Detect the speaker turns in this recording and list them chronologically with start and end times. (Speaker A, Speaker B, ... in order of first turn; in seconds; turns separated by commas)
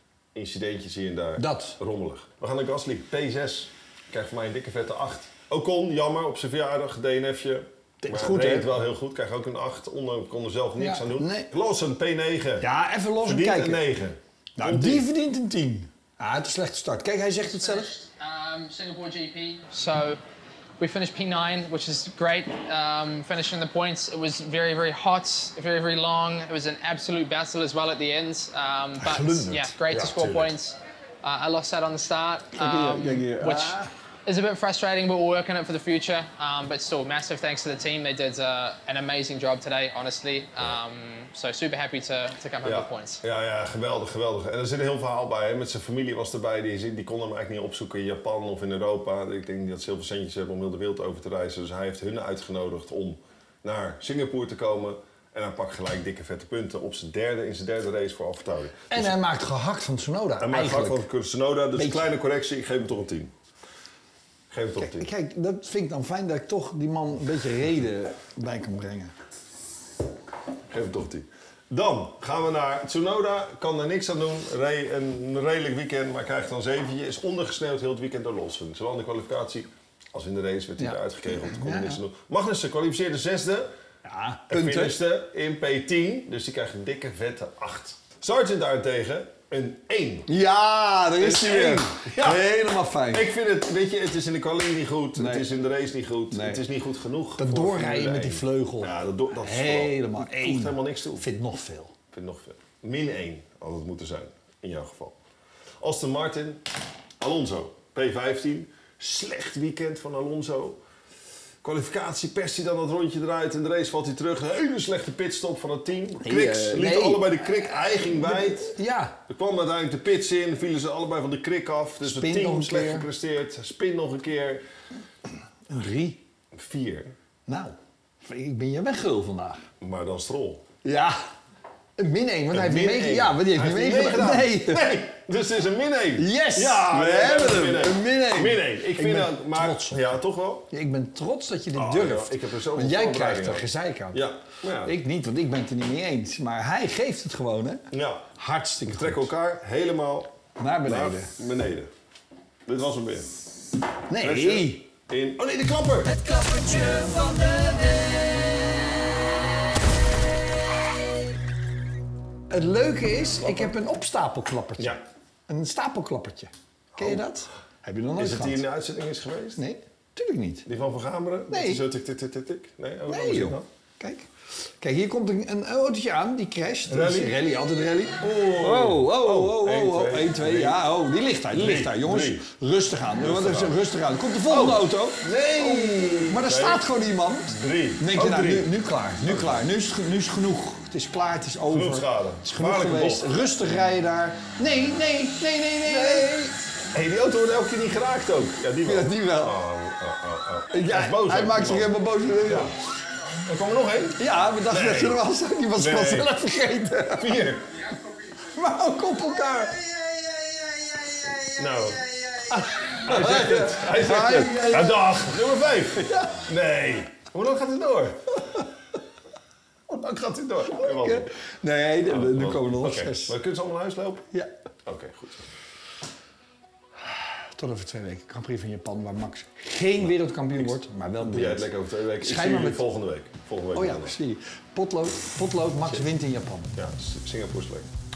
Speaker A: 0.3-12.7, Speaker B: 1.4-1.8, Speaker B: 8.0-8.7, Speaker B: 10.8-11.5, Speaker B: 12.6-13.8, Speaker A: 13.2-15.1, Speaker B: 14.6-17.9, Speaker C: 17.7-20.2, Speaker C: 20.8-43.2, Speaker B: 29.0-29.7, Speaker A: 29.9-30.5, Speaker B: 32.6-33.9, Speaker A: 42.6-59.1, Speaker B: 58.9-61.1, Speaker A: 60.4-63.3, Speaker B: 61.8-62.1, Speaker A: 64.5-65.1, Speaker B: 64.8-69.1, Speaker A: 70.7-83.7, Speaker B: 80.8-82.0, Speaker B: 84.0-85.0, Speaker A: 84.5-90.3, Speaker B: 90.3-93.2, Speaker A: 91.2-92.5, Speaker A: 93.1-101.2, Speaker B: 95.2-95.5, Speaker B: 96.3-96.6, Speaker B: 97.4-101.9, Speaker A: 102.1-105.2, Speaker A: 105.8-106.7, Speaker A: 107.2-110.8, Speaker A: 111.6-118.8, Speaker B: 116.2-119.2, Speaker A: 119.3-124.6, Speaker B: 122.0-123.1, Speaker B: 125.7-126.2, Speaker A: 126.5-127.1, Speaker B: 127.5-129.6, Speaker A: 129.8-130.6, Speaker B: 130.8-131.2, Speaker B: 132.0-134.9, Speaker A: 132.5-140.7, Speaker B: 136.2-140.2, Speaker B: 140.7-144.2, Speaker A: 141.7-144.9, Speaker B: 144.8-149.3, Speaker A: 147.9-148.3, Speaker A: 148.8-151.9, Speaker B: 150.6-151.3, Speaker A: 152.7-153.4, Speaker B: 154.1-154.8, Speaker A: 154.2-156.2, Speaker B: 156.1-158.6, Speaker B: 162.5-168.6, Speaker A: 163.4-163.7, Speaker A: 166.9-167.2, Speaker A: 168.2-169.6, Speaker B: 169.6-170.7, Speaker A: 170.7-173.6, Speaker B: 171.5-171.8, Speaker B: 173.1-174.3, Speaker B: 174.8-196.5, Speaker A: 176.9-177.3, Speaker A: 178.2-180.8, Speaker A: 181.5-182.5, Speaker A: 183.2-183.8, Speaker A: 184.4-186.8, Speaker A: 187.5-189.6, Speaker A: 191.7-193.3, Speaker A: 195.8-196.4, Speaker A: 196.9-202.7, Speaker B: 198.8-199.6, Speaker B: 200.7-202.7, Speaker A: 203.4-206.3, Speaker B: 204.2-207.4, Speaker A: 207.1-207.7, Speaker B: 208.4-209.9, Speaker B: 210.9-211.5, Speaker A: 211.5-218.6, Speaker B: 212.5-215.3, Speaker B: 216.0-216.4, Speaker A: 219.9-221.3, Speaker B: 220.7-223.4, Speaker A: 222.0-224.2, Speaker A: 224.8-225.5, Speaker B: 227.5-232.8, Speaker A: 230.6-234.2, Speaker B: 233.7-236.7, Speaker A: 235.8-236.1, Speaker A: 236.7-237.9